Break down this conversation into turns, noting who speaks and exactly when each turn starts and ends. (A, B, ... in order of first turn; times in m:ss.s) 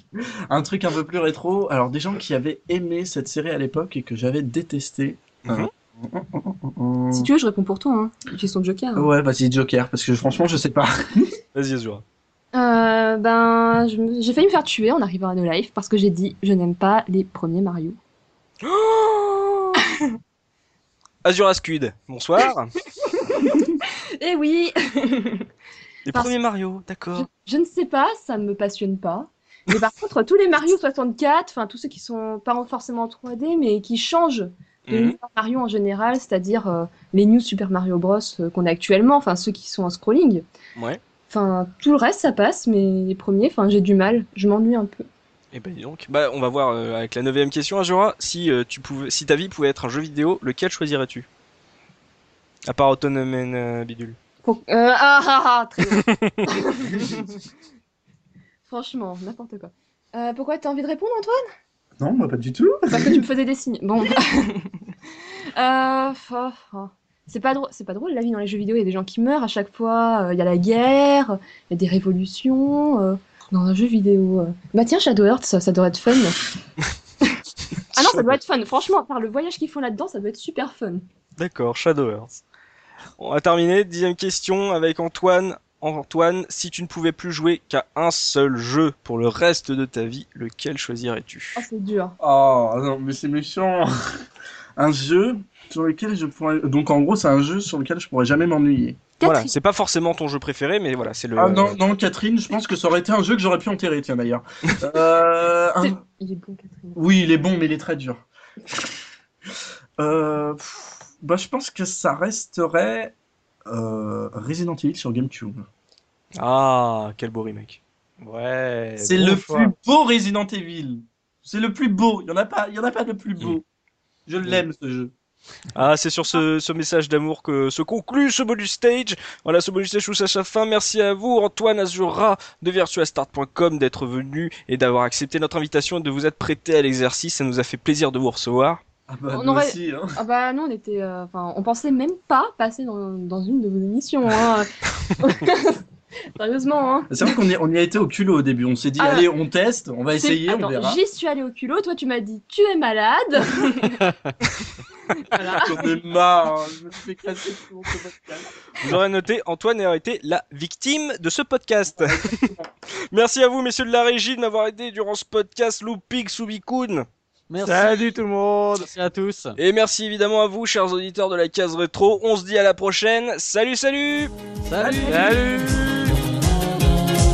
0:00.1-0:07.3 A
0:07.1-0:09.1 B
0:09.0-0:11.3 A
0:11.5-0:12.0 C
0:12.5-0:18.0 B
0:18.6-0:19.8 C
0:21.2-0:22.7 C
0:23.0-0:25.5 B
0:26.1-0:27.3 C
0:27.2-0:40.4 B
0:34.9-0:35.2 C
0:40.8-0:41.0 C
0:41.3-0:45.1 B
0:45.5-0:51.3 C
0:52.7-0:54.2 C
0:54.4-0:57.4 B
0:55.9-0:56.4 C
0:58.7-1:01.4 B
1:02.0-1:03.2 A
1:02.9-1:04.9 B
1:05.6-1:16.4 B
1:17.2-1:21.0 B
1:18.0-1:18.3 C
1:21.4-1:22.4 C
1:23.2-1:31.6 C
1:31.6-1:32.2 B
1:32.2-1:33.9 A
1:34.8-1:39.0 A
1:39.2-1:39.5 B
1:39.2-1:41.8 C
1:41.4-1:46.0 A
1:45.8-1:47.0 B
1:47.0-1:49.0 A
1:50.0-1:53.1 A
1:53.7-1:55.7 A
1:56.4-1:57.8 C
1:58.2-1:59.7 D
1:59.0-2:03.6 A
2:04.3-2:05.1 A
2:05.7-2:18.8 C
2:19.1-2:20.2 A
2:19.3-2:25.8 B
2:26.4-2:27.3 B
2:27.1-2:31.0 A
2:29.0-2:29.3 B
2:30.2-2:34.1 B
2:35.2-2:36.0 B
2:35.6-2:38.9 A
2:38.8-2:42.5 C
2:41.9-2:42.7 A
2:43.1-2:47.1 C
2:47.5-2:48.1 E
2:47.6-2:48.9 D
2:48.7-2:49.6 E
2:49.6-2:54.3 C
2:54.7-2:55.5 E
2:54.8-2:55.8 A
2:55.0-2:56.2 D